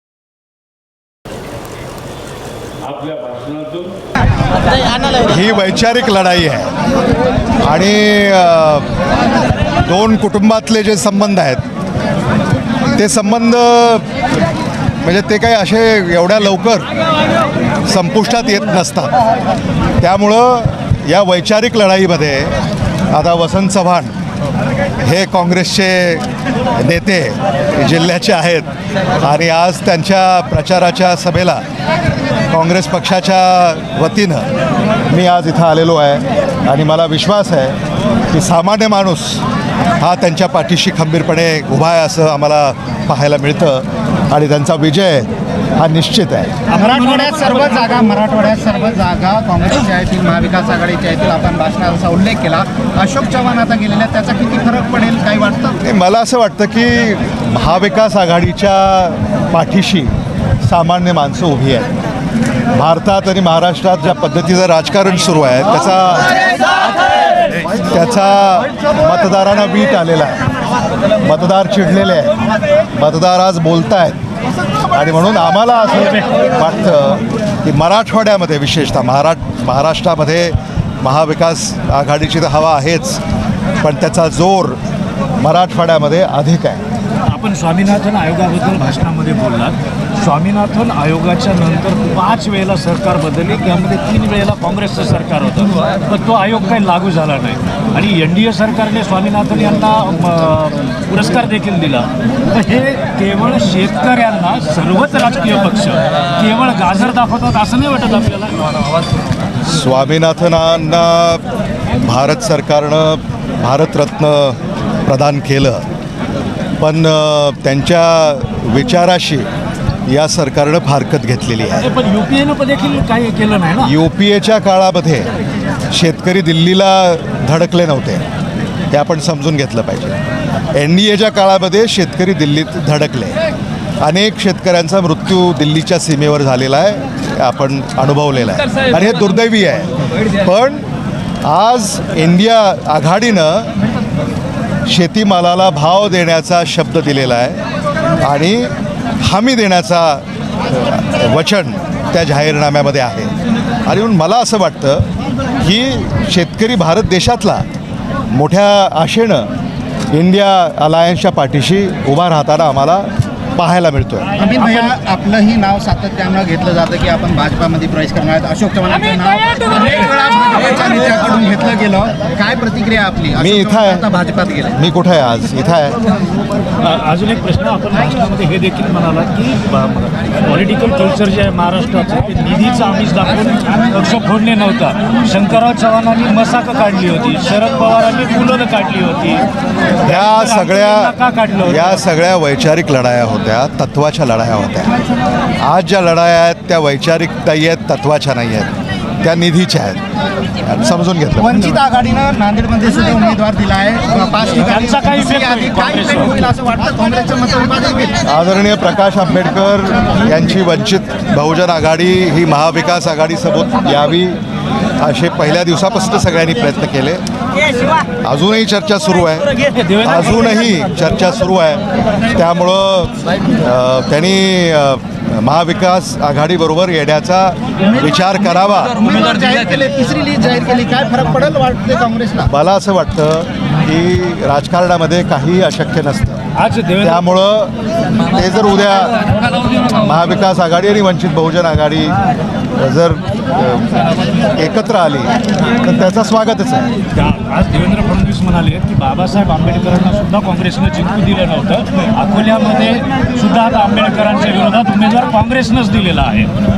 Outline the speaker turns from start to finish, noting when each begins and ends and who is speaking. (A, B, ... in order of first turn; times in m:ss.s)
0:05.2-0:06.7 A
0:07.6-0:08.9 A
0:09.8-0:11.6 A
0:12.9-0:14.1 A
0:15.0-0:16.9 A
0:17.9-0:19.1 A
0:20.0-0:22.6 A
0:23.1-0:24.1 A
0:25.0-0:26.2 A
0:26.8-0:31.6 A
0:32.5-0:34.5 A
0:35.1-0:37.8 A
0:38.3-0:39.4 A
0:40.0-0:46.7 A
0:46.7-0:55.8 B
0:55.8-1:01.9 A
1:02.7-1:06.4 A
1:07.7-1:10.4 A
1:11.2-1:12.4 A
1:12.9-1:14.2 A
1:14.9-1:23.2 A
1:23.8-1:24.8 A
1:25.4-1:26.8 A
1:27.3-1:48.6 C
1:49.6-1:51.4 A
1:52.0-1:55.9 A
1:56.8-1:59.5 A
2:00.1-2:01.9 A
2:01.8-2:04.0 C
2:03.8-2:05.3 A
2:05.9-2:08.2 A
2:08.9-2:10.2 A
2:10.7-2:13.4 A
2:14.0-2:20.9 A
2:21.4-2:23.7 A
2:24.9-2:27.6 A
2:28.2-2:33.3 A
2:33.8-2:35.1 A
2:35.6-2:37.6 A
2:38.3-2:39.5 A
2:40.1-2:44.3 A
2:44.4-2:54.8 B
2:53.4-2:54.1 A
2:54.7-2:56.0 A
2:56.8-3:09.5 C
3:10.0-3:12.0 C
3:10.0-3:14.9 A
3:15.6-3:18.7 A
3:19.2-3:20.0 A
3:20.6-3:21.7 A
3:21.4-3:28.2 B
3:24.5-3:26.5 C
3:28.2-3:34.4 A
3:35.0-3:37.2 A
3:38.2-3:49.0 A
3:39.8-3:40.4 C
3:49.0-3:52.5 B
3:52.5-3:56.4 A
3:56.6-3:57.2 C
3:57.0-3:59.2 A
3:59.8-4:02.2 A
4:02.8-4:06.9 A
4:07.2-4:16.5 C